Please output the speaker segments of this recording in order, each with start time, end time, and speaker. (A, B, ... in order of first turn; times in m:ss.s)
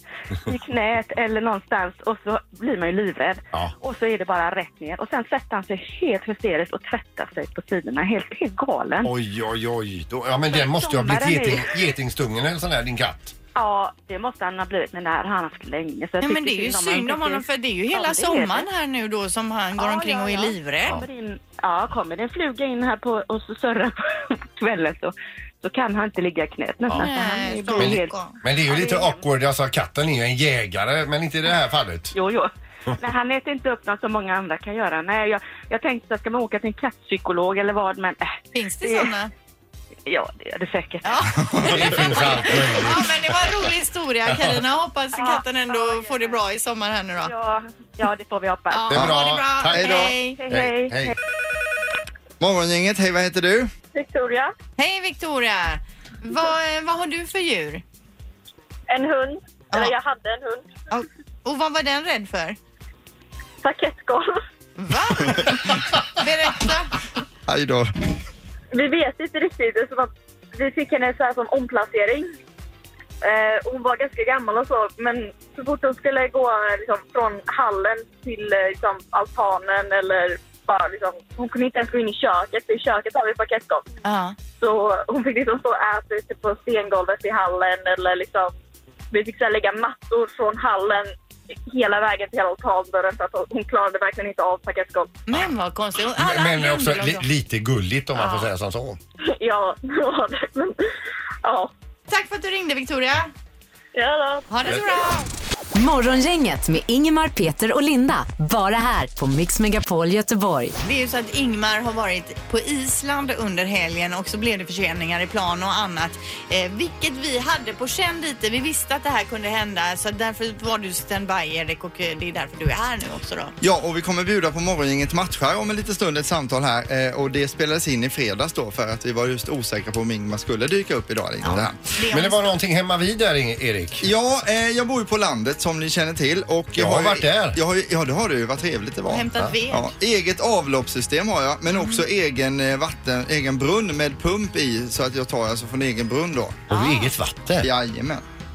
0:00.4-0:09.1 A
0:09.0-0:13.3 B
0:10.5-0:11.9 A
0:13.5-0:18.7 A
0:16.2-0:21.0 C
0:19.8-0:29.2 A
0:27.0-0:28.3 C
0:27.8-0:32.1 B
0:32.1-0:39.2 A
0:38.5-0:39.3 C
0:40.0-0:42.2 A
0:41.0-0:47.3 C
0:41.6-0:43.6 B
0:47.2-0:49.1 A
0:48.7-0:50.4 C
0:48.9-0:51.1 B
0:49.7-0:50.1 D
0:50.0-0:51.1 A
0:52.4-0:53.7 D
0:53.9-0:54.5 E
0:54.8-0:57.8 C
0:58.9-1:00.7 E
1:00.9-1:02.6 C
1:03.6-1:04.4 E
1:04.8-1:06.9 C
1:07.5-1:07.9 D
1:08.7-1:12.3 E
1:13.2-1:23.9 E
1:24.0-1:24.4 C
1:24.6-1:28.5 E
1:29.1-1:31.1 E
1:31.6-1:35.2 E
1:35.3-1:37.2 C
1:36.2-1:39.0 B
1:38.2-1:38.4 C
1:39.2-1:40.8 E
1:41.4-1:41.7 E
1:42.1-1:43.3 C
1:43.9-1:44.5 E
1:44.5-1:45.3 C
1:45.7-1:50.8 F
1:50.8-2:03.5 C
2:03.6-2:11.8 D
2:11.5-2:12.5 C
2:11.5-2:14.1 B
2:14.0-2:26.6 D
2:16.8-2:17.6 B
2:19.1-2:19.9 C
2:21.7-2:22.0 C
2:26.7-2:27.7 B
2:26.7-2:27.1 C
2:27.6-2:28.2 D